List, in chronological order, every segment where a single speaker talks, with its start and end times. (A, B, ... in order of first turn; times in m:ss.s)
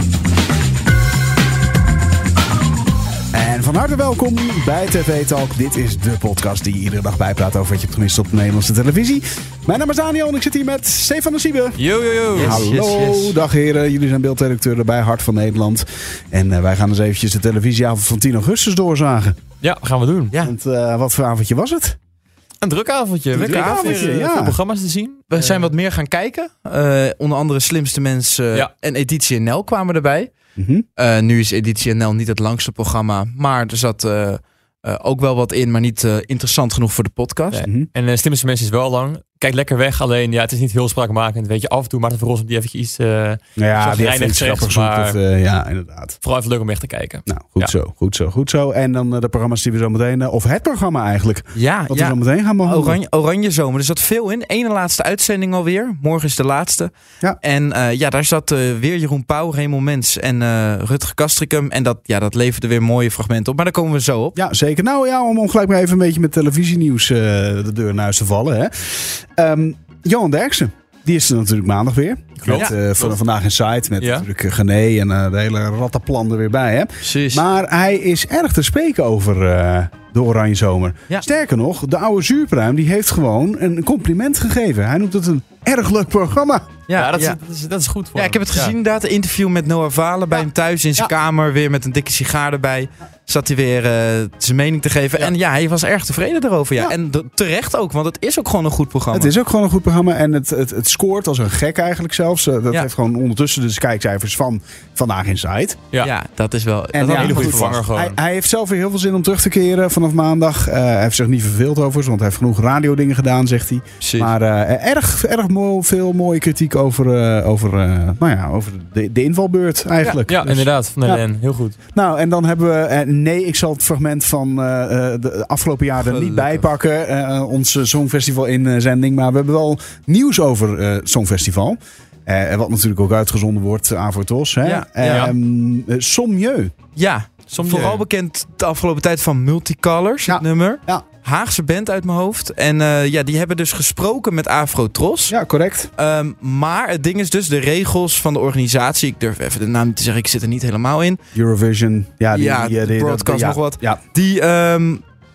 0:03.3-0:19.4 A
0:11.8-0:12.6 B
0:12.4-0:13.3 C
0:19.6-0:20.3 B
0:20.4-0:22.0 A
0:22.6-0:25.7 B
0:23.3-0:24.1 C
0:23.3-0:24.6 A
0:25.3-0:30.3 C
0:30.6-0:30.8 A
0:31.0-0:37.6 C
0:37.5-0:45.2 B
0:43.6-0:46.2 A
0:46.2-0:47.7 B
0:47.3-0:53.0 A
0:51.5-1:04.4 C
1:04.4-1:26.7 A
1:12.4-1:13.2 B
1:14.0-1:14.2 B
1:17.0-1:17.4 C
1:26.9-1:27.4 C
1:27.0-1:28.7 B
1:28.1-1:39.3 C
1:39.1-1:45.8 A
1:46.0-1:47.8 C
1:46.9-2:01.2 A
1:47.1-1:48.2 B
1:54.0-1:54.3 C
2:00.0-2:01.7 B
2:01.9-2:16.7 A
2:06.0-2:06.6 C
2:14.6-2:15.3 C
2:16.9-2:25.3 C
2:17.5-2:18.0 B
2:20.3-2:21.0 A
2:25.3-2:25.9 A
2:26.0-2:31.2 C
2:31.3-2:34.0 A
2:32.3-2:35.0 C